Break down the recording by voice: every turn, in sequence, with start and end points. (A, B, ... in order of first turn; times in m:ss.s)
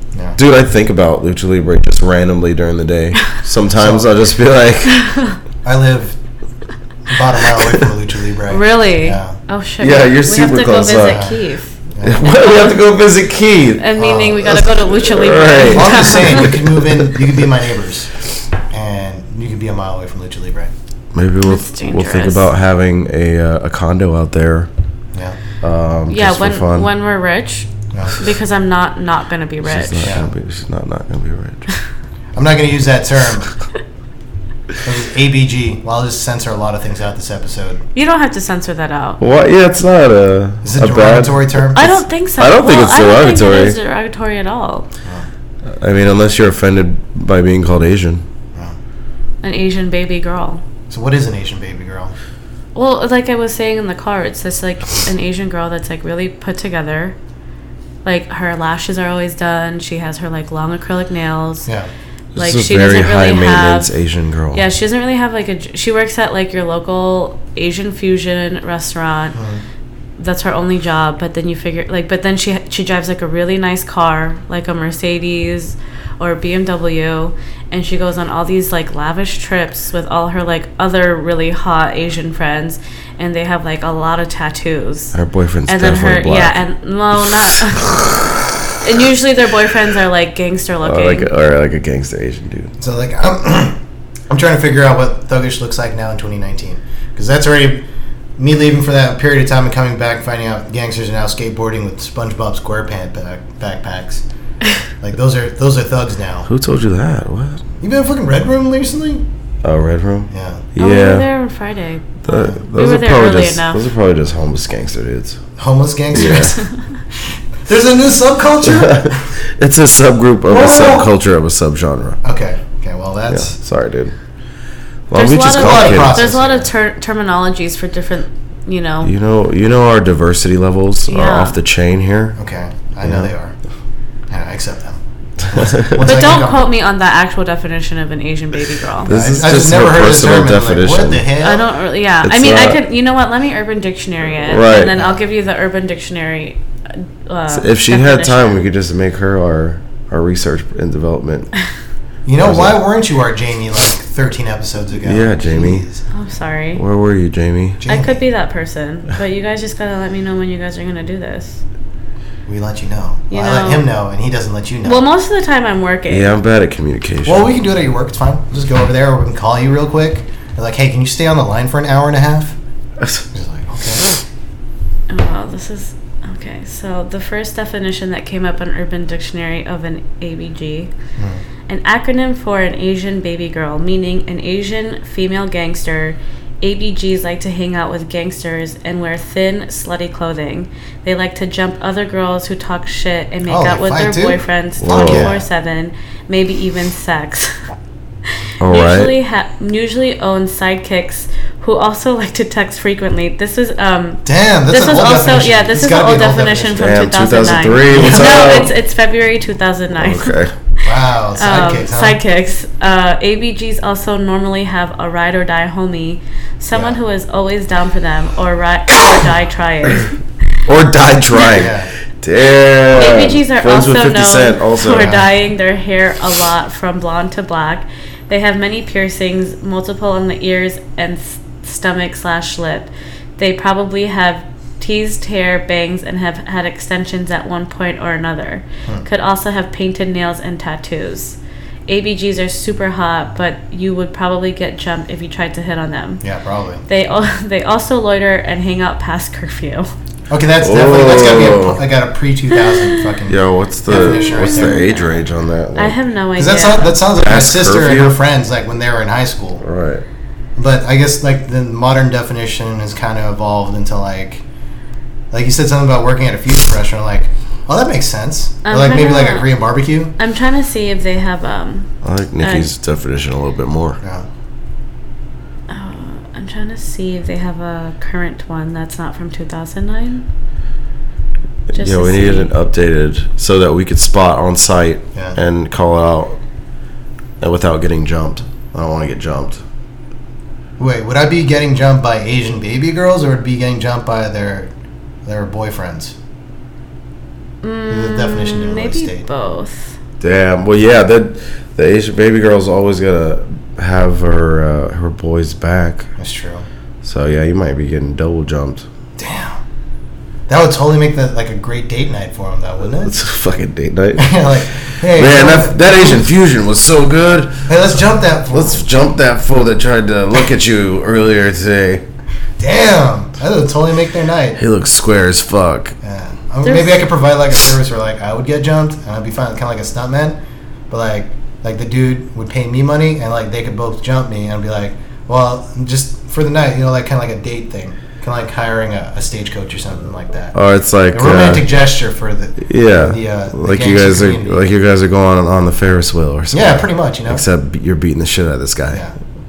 0:00.4-0:05.0 A
0:03.8-0:04.1 B
0:04.9-0:05.4 C
0:05.6-0:06.2 B
0:07.1-0:09.4 B
0:08.5-0:12.8 C
0:09.8-0:11.2 A
0:11.1-0:11.4 B
0:11.9-0:12.2 B
0:12.0-0:13.8 A
0:13.8-0:16.6 C
0:14.0-0:14.8 B
0:14.9-0:17.1 A
0:15.7-0:18.1 B
0:18.7-0:20.7 B
0:21.1-0:24.7 A
0:21.4-0:22.4 C
0:25.6-0:26.9 A
0:26.1-0:30.1 C
0:27.9-0:28.2 B
0:29.6-0:31.7 A
0:30.0-0:30.3 B
0:32.3-0:33.5 B
0:34.8-0:37.8 B
0:37.9-0:39.2 C
0:39.2-0:43.8 A
0:40.6-0:41.9 B
0:41.7-0:44.9 C
0:45.7-0:48.2 A
0:49.4-0:50.6 C
0:50.9-0:52.1 B
0:52.7-0:57.1 C
0:58.0-1:01.7 C
1:02.3-1:04.6 A
1:02.4-1:03.9 C
1:04.5-1:09.4 C
1:09.3-1:09.6 B
1:10.2-1:25.1 C
1:25.1-1:26.6 A
1:25.7-1:28.1 C
1:27.8-1:28.3 A
1:28.8-1:31.3 C
1:30.8-1:32.7 A
1:32.8-1:33.8 B
1:34.3-1:37.8 B
1:38.4-1:44.2 B
1:45.0-1:46.5 B
1:46.5-1:47.6 A
1:47.8-1:49.2 B
1:49.6-1:51.2 A
1:50.3-1:50.7 B
1:50.8-1:53.8 C
1:52.2-1:55.4 A
1:55.6-1:56.6 B
1:56.1-1:56.6 A
1:57.2-1:59.3 B
1:58.6-2:02.2 A
2:00.5-2:01.1 B
2:02.2-2:03.5 B
2:03.3-2:04.1 A
2:05.1-2:06.2 A
2:05.1-2:09.1 C
2:05.5-2:06.7 B
2:09.0-2:12.4 A
2:11.1-2:11.6 C
2:12.4-2:13.5 B
2:13.0-2:13.3 A
2:14.3-2:16.6 B
2:15.5-2:16.0 A
2:16.0-2:19.1 C
2:19.0-2:21.3 A
2:19.1-2:21.7 B
2:21.4-2:28.6 C
2:22.2-2:22.8 A
2:24.4-2:24.9 A
2:24.9-2:25.2 B
2:27.5-2:31.5 A
2:32.2-2:36.0 B
2:32.4-2:32.8 A
2:35.0-2:35.8 A
2:36.1-2:36.8 C
2:36.7-2:37.8 A
2:37.8-2:38.2 B
2:37.8-2:41.6 C
2:42.5-2:45.0 B
2:43.3-2:43.9 C
2:44.8-2:46.3 C
2:46.1-2:47.5 A
2:47.2-2:52.6 B
2:53.3-2:54.1 B
2:55.1-3:00.9 C
3:01.2-3:01.4 B
3:01.7-3:17.6 C
3:13.5-3:15.4 B
3:14.8-3:15.3 A
3:18.6-3:19.1 A
3:18.6-3:40.2 C
3:24.2-3:26.9 B
3:26.8-3:28.7 A
3:27.9-3:28.5 B
3:30.0-3:30.5 A
3:30.8-3:32.2 B
3:36.7-3:37.0 B
3:40.6-3:45.2 A
3:41.5-3:41.9 B
3:42.9-4:06.2 C
3:44.9-3:45.2 B
4:06.2-4:06.8 B
4:06.9-4:09.9 C
4:10.3-4:14.8 B
4:10.6-4:11.8 A
4:12.5-4:13.2 C
4:13.3-4:16.0 A
4:13.9-4:15.2 C
4:15.7-4:17.0 C
4:16.4-4:19.6 B
4:17.2-4:18.2 A
4:19.6-4:20.0 A
4:20.6-4:24.4 B
4:25.3-4:30.1 B
4:28.6-4:29.5 C
4:30.2-4:32.7 C
4:32.0-4:34.0 A
4:34.0-4:34.3 B
4:35.7-4:40.2 C
4:41.7-4:46.4 A
4:41.8-4:42.5 C
4:47.4-4:49.6 A
4:50.8-4:54.7 B
4:55.2-4:56.1 B
4:57.6-4:59.9 C
4:57.9-4:59.2 B
5:00.2-5:06.1 A
5:06.2-5:06.7 B
5:07.0-5:08.8 A
5:09.2-5:09.6 B
5:10.5-5:13.1 B
5:13.0-5:17.7 A
5:14.2-5:16.2 B
5:17.7-5:18.8 B
5:18.5-5:22.0 A
5:22.6-5:24.6 B
5:24.6-5:26.0 A
5:26.0-5:30.4 B
5:26.6-5:27.0 C
5:30.9-5:40.5 B
5:40.5-5:41.6 A
5:41.1-5:44.6 B
5:42.6-5:49.0 A
5:46.5-5:47.4 B